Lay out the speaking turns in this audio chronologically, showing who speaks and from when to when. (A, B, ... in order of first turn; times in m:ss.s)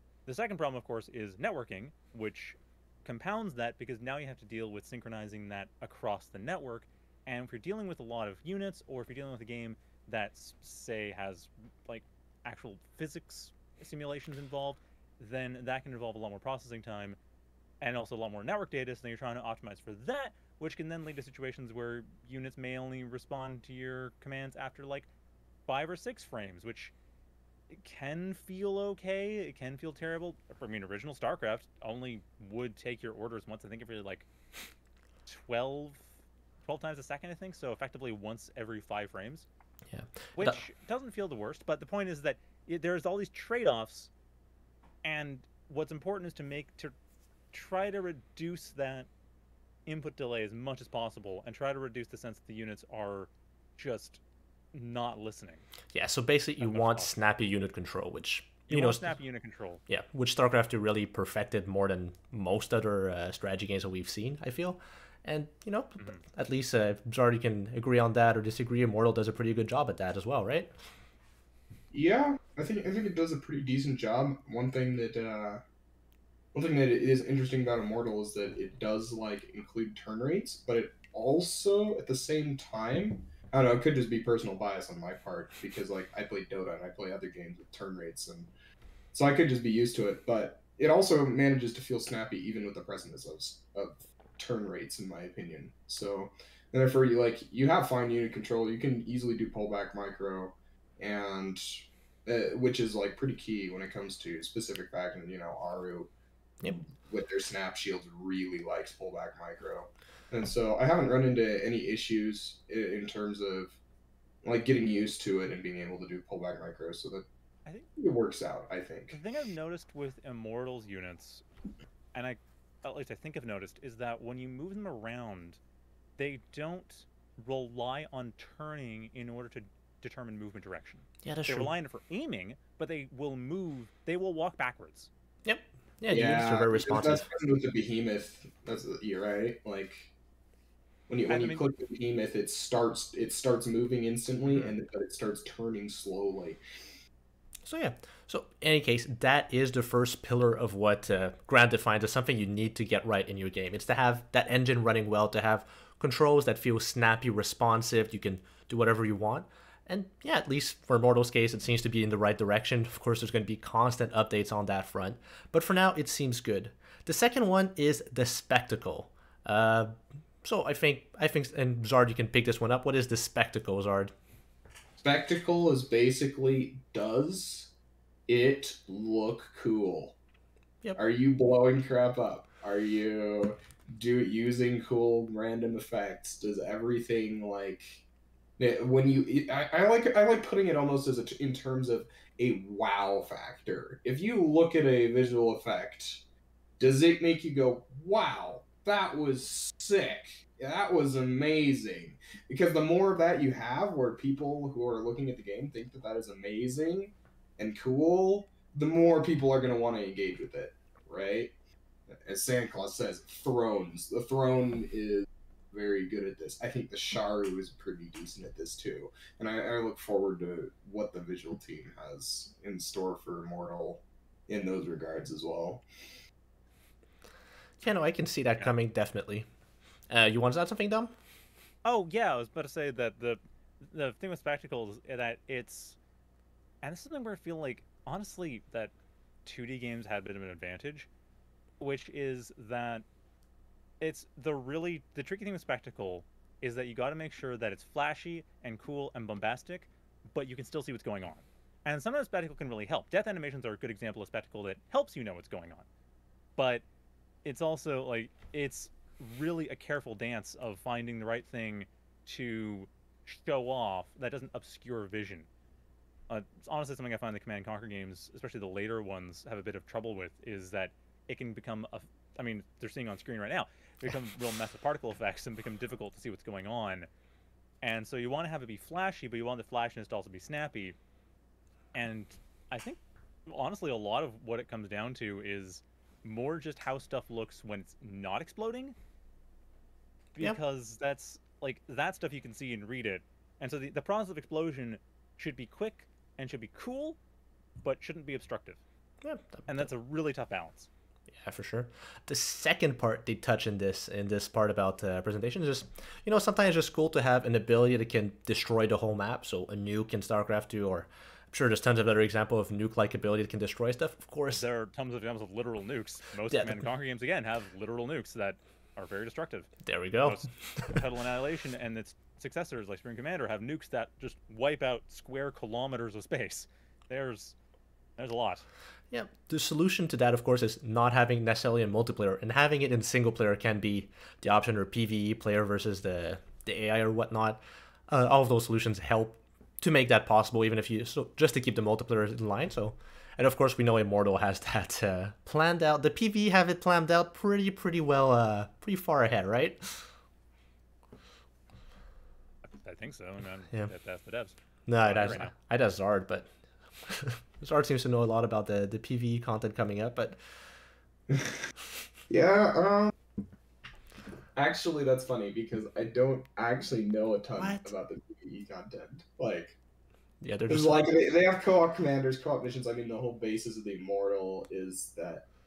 0:00.2-0:17.2 A
0:17.8-0:25.1 A
0:25.7-0:26.9 A
0:27.7-0:34.3 A
0:35.2-0:36.1 A
0:36.6-0:39.4 A
0:39.9-0:40.6 B
0:40.4-0:44.1 A
0:45.0-0:46.9 A
0:47.5-0:49.1 A
0:49.8-0:54.2 A
0:54.7-0:55.6 A
0:55.9-0:59.2 B
0:56.6-0:57.2 A
0:58.7-0:59.8 A
0:59.9-1:10.7 B
1:11.9-1:15.6 C
1:16.5-1:28.5 C
1:29.1-1:46.1 C
1:46.6-1:53.8 C
1:54.4-1:57.2 C
1:58.0-1:59.2 C
1:59.1-2:01.4 A
2:02.1-2:05.6 A
2:06.2-2:15.1 A
2:11.2-2:11.7 B
2:15.4-2:17.3 B
2:16.1-2:20.1 C
2:21.1-2:26.6 C
2:21.3-2:21.6 A
2:27.6-2:54.1 B
2:55.0-2:57.7 C
2:58.3-3:00.2 C
3:01.0-3:08.0 C
3:08.6-3:16.2 C
3:16.8-3:31.5 C
3:32.1-3:45.8 C
3:47.8-3:49.5 B
3:50.1-3:51.1 B
3:51.8-3:56.0 A
3:56.8-3:58.9 A
3:59.4-4:01.1 A
4:01.8-4:03.0 A
4:04.0-4:15.8 A
4:16.6-4:16.8 A
4:17.4-4:25.5 A
4:26.3-4:37.1 A
4:37.8-4:41.0 A
4:41.9-4:48.9 A
4:50.4-4:57.2 A
4:57.8-4:58.8 A
4:59.2-4:59.9 B
4:59.7-5:00.9 A
5:01.3-5:14.6 B
5:14.5-5:19.7 A
5:16.5-5:16.8 B
5:19.8-5:21.0 B
5:20.2-5:27.5 A
5:28.2-5:28.6 A
5:29.1-5:50.1 B
5:52.7-5:55.5 A
5:54.9-6:00.4 B
6:01.3-6:01.6 C
6:02.3-6:03.1 C
6:04.6-6:09.8 C
6:07.6-6:07.9 B
6:10.4-6:11.1 B
6:10.7-6:15.4 C